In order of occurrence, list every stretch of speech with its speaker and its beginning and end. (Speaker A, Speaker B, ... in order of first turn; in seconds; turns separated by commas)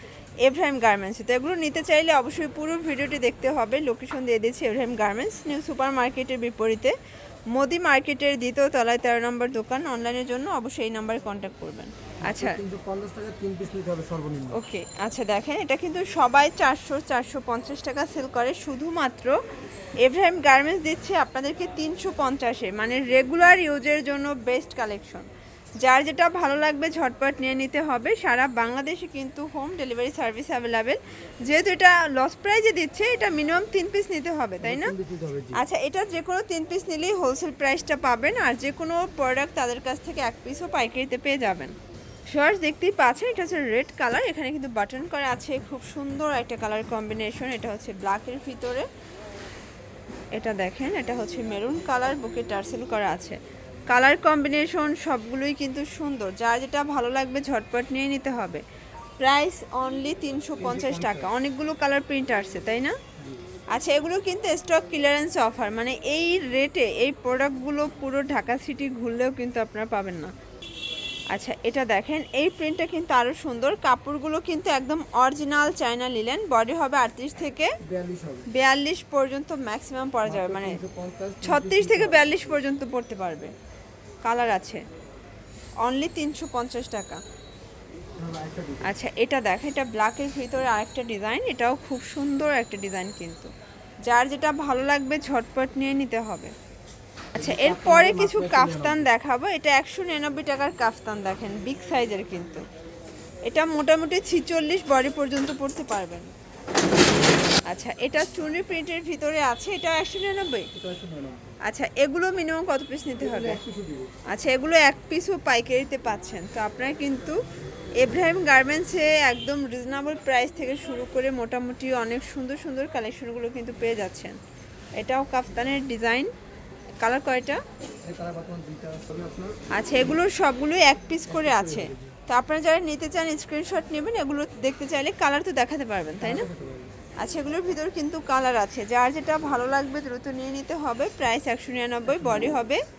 Speaker A: 0.4-6.9, Speaker A: 7.5-12.6, Speaker B: 12.2-14.6, Speaker A: 14.5-19.4, Speaker A: 20.0-25.3, Speaker A: 25.8-34.9, Speaker B: 34.6-35.6, Speaker A: 35.5-41.8, Speaker A: 42.3-48.9, Speaker A: 50.3-58.6, Speaker A: 59.2-63.0, Speaker B: 60.6-61.3, Speaker B: 63.1-63.4, Speaker A: 63.7-70.3, Speaker A: 71.3-77.8, Speaker B: 77.8-78.5, Speaker A: 78.5-80.8, Speaker B: 80.2-82.6, Speaker A: 81.4-83.5, Speaker A: 84.2-84.8, Speaker A: 85.8-87.2, Speaker B: 88.2-89.0, Speaker A: 88.8-93.5, Speaker A: 94.0-96.5, Speaker B: 97.3-99.1, Speaker A: 97.3-102.6, Speaker A: 103.4-106.3, Speaker A: 107.6-110.7, Speaker B: 110.7-111.6, Speaker A: 111.6-113.6, Speaker B: 113.1-114.2, Speaker A: 114.3-117.4, Speaker A: 118.0-124.4, Speaker A: 125.0-126.3, Speaker A: 127.0-127.6, Speaker B: 128.0-129.6, Speaker A: 129.7-136.5, Speaker B: 131.3-132.2, Speaker B: 136.2-137.0, Speaker A: 137.2-142.8, Speaker B: 142.1-142.6